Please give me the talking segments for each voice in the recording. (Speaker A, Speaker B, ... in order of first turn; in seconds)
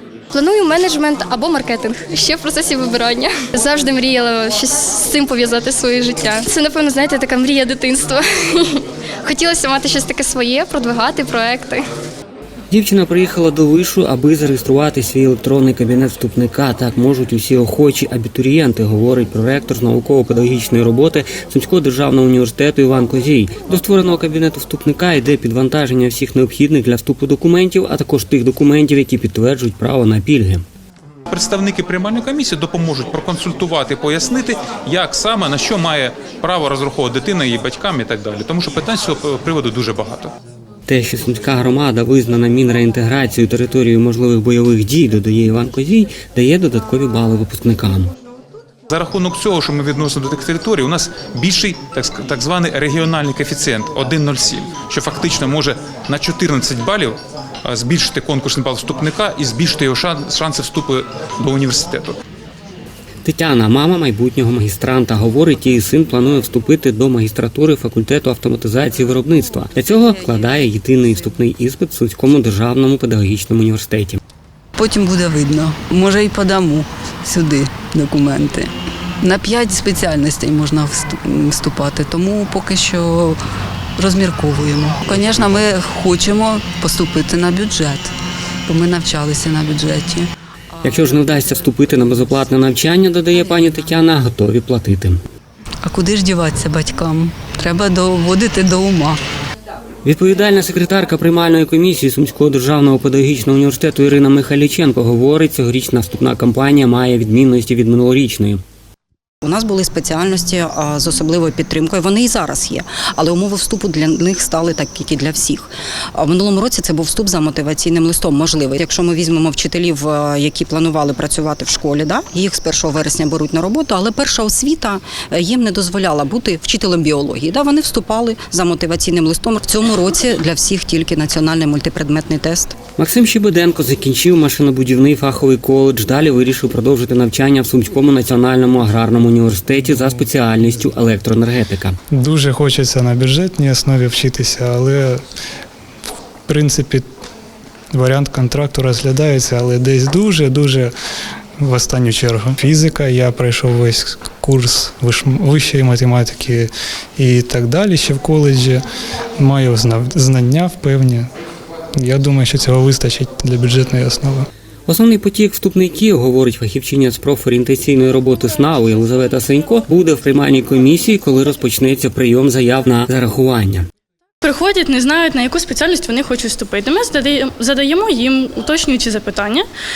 Speaker A: 0.3-11.8
Speaker B: 12.7-30.6, 40.9-48.1, 63.2-74.2, 90.8-95.2, 100.0-108.6, 133.0-142.0, 164.9-173.9
Speaker C: 31.4-40.3, 49.0-57.1, 57.7-62.1
Speaker D: 74.8-78.7, 79.2-83.4, 84.0-88.1, 88.7-90.2, 95.8-99.2
Speaker E: 109.4-132.7
Speaker F: 142.1-145.2, 146.5-147.1, 147.9-150.9, 151.6-158.8, 159.4-161.3, 162.0-164.5
Speaker G: 174.4-179.6